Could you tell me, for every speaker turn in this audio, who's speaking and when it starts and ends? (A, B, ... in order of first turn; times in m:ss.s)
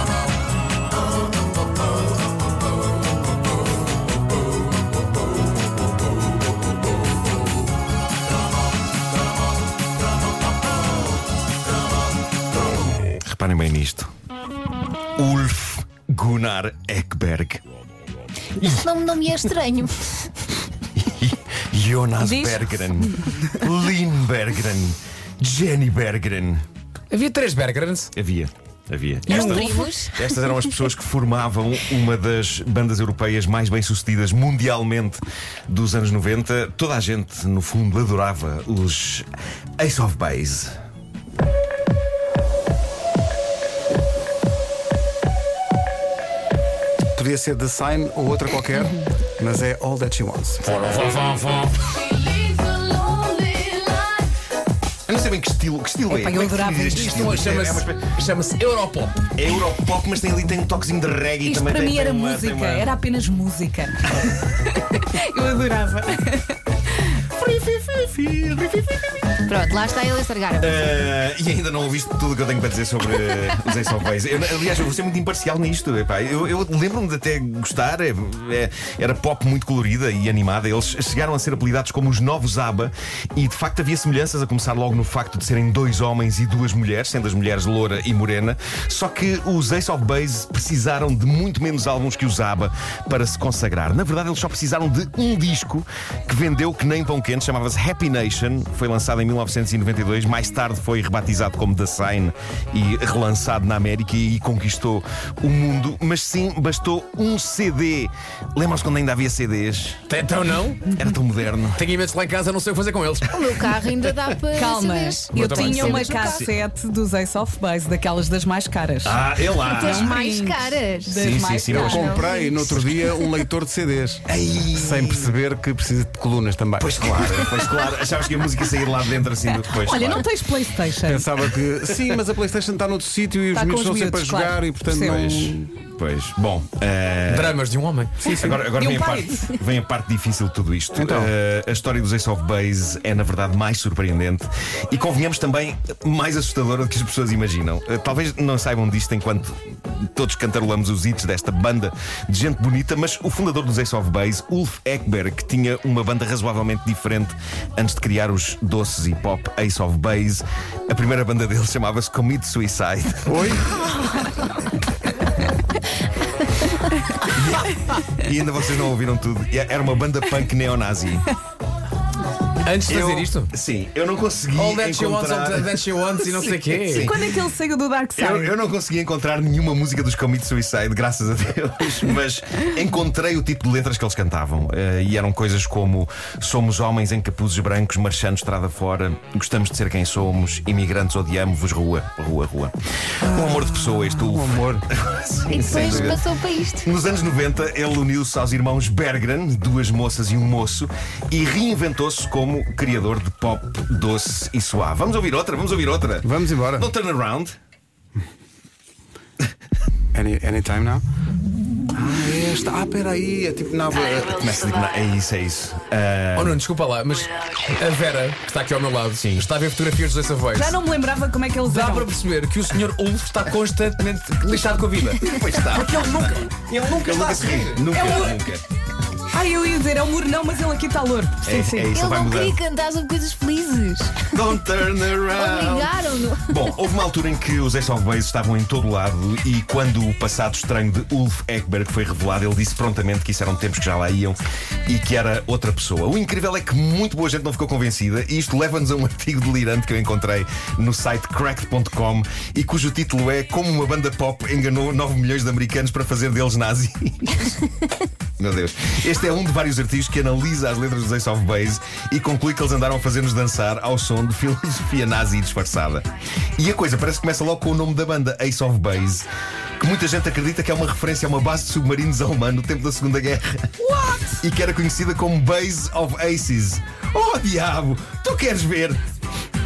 0:13.0-0:14.1 A
0:15.2-0:17.6 A
0:18.6-0:20.3 B
0:21.0-0:26.6 A
0:27.1-0:28.1 C
0:28.1-0:39.3 A
0:29.3-0:29.9 C
0:29.3-0:30.2 B
0:39.8-0:40.7 A
0:47.2-0:50.7 D
0:50.7-0:51.8 C
0:53.1-0:54.0 E
0:53.3-0:53.7 C
0:55.1-0:58.1 A
0:56.1-0:57.2 E
0:56.9-0:59.3 C
0:59.3-1:02.9 A
1:01.4-1:07.2 E
1:07.3-1:09.2 A
1:09.4-1:10.9 B
1:10.6-1:50.0 A
1:50.1-1:50.9 C
1:50.9-1:51.8 A
1:51.7-1:53.6 C
1:53.2-1:56.4 B
1:54.5-2:02.2 E
1:55.3-1:55.8 C
1:56.0-1:56.5 A
1:59.0-2:00.1 A
1:59.7-2:01.2 B
2:01.2-2:02.2 A
2:01.7-2:07.5 D
2:01.8-2:03.2 B
2:04.3-2:05.3 A
2:06.8-2:10.3 A
2:09.6-2:11.3 E
2:11.0-2:15.7 D
2:13.5-2:15.2 E
2:15.0-2:17.6 A
2:17.3-2:19.2 C
2:18.2-2:18.6 D
2:18.3-2:43.5 A
2:20.9-2:21.3 D
2:43.2-2:44.0 D
2:47.2-2:51.3 A
2:52.6-2:53.5 C
2:52.9-2:57.2 A
2:54.5-2:57.1 C
2:57.0-2:58.5 E
2:58.2-3:16.2 A
3:13.2-3:14.8 D
3:15.5-3:16.9 B
3:16.8-3:27.6 A
3:26.2-3:26.9 D
3:30.1-3:31.0 D
3:31.9-3:34.4 D
3:34.1-3:36.6 A
3:36.4-3:40.8 C
3:39.2-3:39.5 A
3:40.5-3:42.1 E
3:41.6-3:47.9 C
3:45.2-3:46.0 A
3:46.8-3:48.6 A
3:47.9-3:48.4 E
3:49.3-3:51.5 E
3:51.4-3:52.6 A
3:51.6-3:54.3 B
3:54.3-3:55.9 A
3:55.3-3:56.6 B
3:56.5-4:17.7 A
4:18.4-4:29.3 A
4:29.8-4:33.7 A
4:33.8-4:34.4 E
4:34.4-4:39.0 A